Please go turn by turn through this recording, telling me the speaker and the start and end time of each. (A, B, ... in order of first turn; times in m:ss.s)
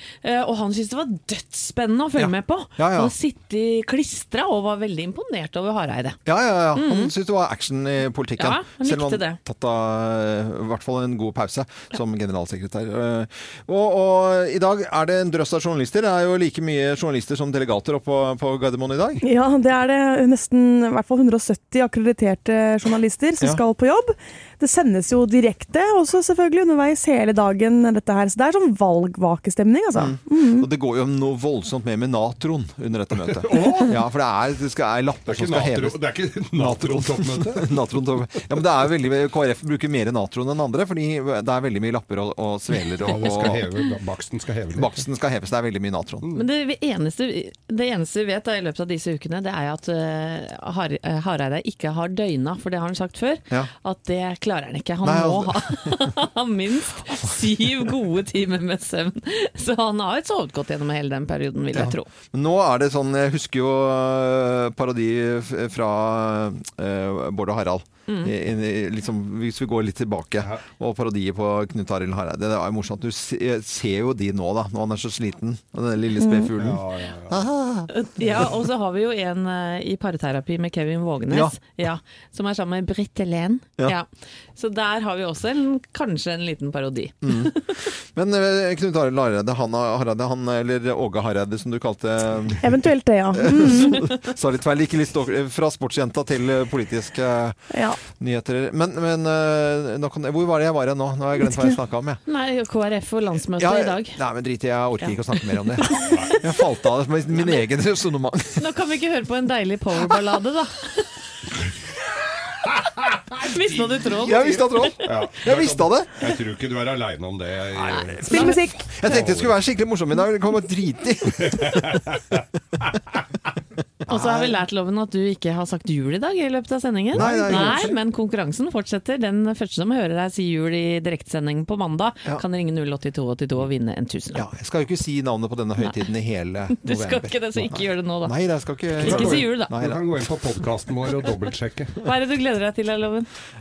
0:00.2-0:06.2 A
0:02.2-0:03.1 B
0:06.3-0:19.2 B
0:06.7-0:07.1 A
0:08.4-0:09.4 A
0:19.2-0:30.7 C
0:30.0-0:36.0 B
0:33.3-0:34.0 D
0:35.3-0:37.7 D
0:36.6-0:43.6 B
0:43.0-0:45.0 D
0:43.2-0:43.5 A
0:44.8-0:46.3 B
0:46.3-1:02.1 A
0:55.0-0:56.1 B
1:01.7-1:17.9 B
1:08.1-1:08.3 A
1:16.2-1:16.5 C
1:16.6-1:17.4 D
1:17.9-1:27.7 A
1:21.3-1:21.6 B
1:27.2-1:27.6 B
1:28.2-1:32.6 B
1:32.6-1:34.0 C
1:33.4-1:42.2 B
1:37.7-1:38.0 C
1:42.3-1:44.2 A
1:43.6-1:48.6 B
1:45.0-1:46.5 A
1:46.0-1:46.4 D
1:48.6-1:51.1 A
1:52.7-1:54.1 D
1:53.4-1:55.3 A
1:54.2-1:56.1 B
1:55.0-1:59.6 D
1:57.7-2:01.8 B
1:58.3-1:58.6 A
1:58.3-1:58.9 C
2:01.4-2:02.9 D
2:04.0-2:04.6 B
2:04.1-2:14.4 A
2:07.1-2:07.9 B
2:07.1-2:08.0 D
2:14.3-2:20.0 B
2:16.8-2:19.7 A
2:19.0-2:22.0 D
2:22.0-2:23.3 A